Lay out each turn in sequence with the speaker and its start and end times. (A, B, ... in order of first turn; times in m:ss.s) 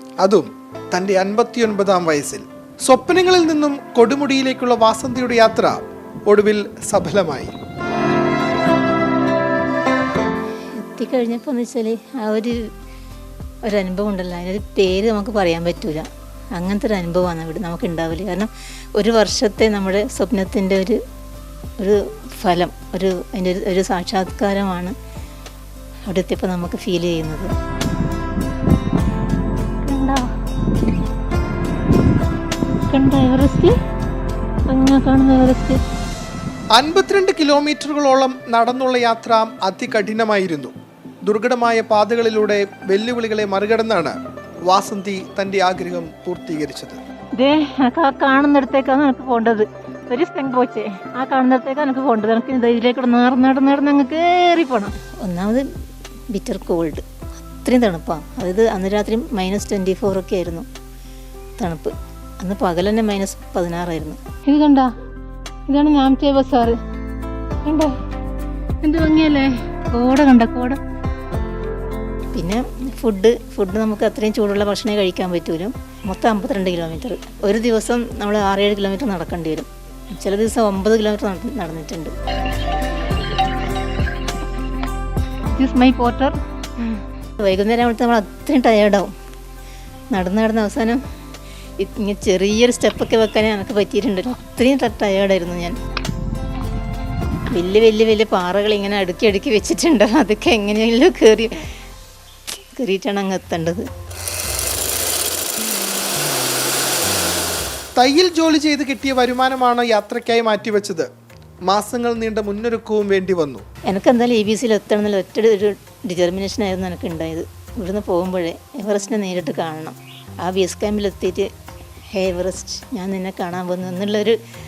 0:00.2-0:07.5 A
0:10.8-0:12.6 B
0:13.7-0:21.0 B
0:21.8-0:25.0 B
0:26.1-0:27.5 B
0:29.8-0:30.3 B
0:32.9-0:33.8 B
0:34.7-0:35.8 B
0:36.7-0:40.7 A
0:41.3-0:47.0 A
0:47.4-0:55.7 B
0:56.3-1:00.7 B
1:01.6-1:04.9 B
1:05.7-1:06.8 B
1:07.6-1:07.9 B
1:08.8-1:10.8 B
1:12.3-1:22.2 B
1:25.5-1:29.1 B
1:30.1-1:31.0 B
1:31.8-1:35.8 B
1:37.5-1:41.8 B
1:42.8-1:43.9 B
1:48.0-1:51.1 A
1:51.7-1:53.6 A
1:53.9-2:01.5 B
2:02.1-2:04.4 B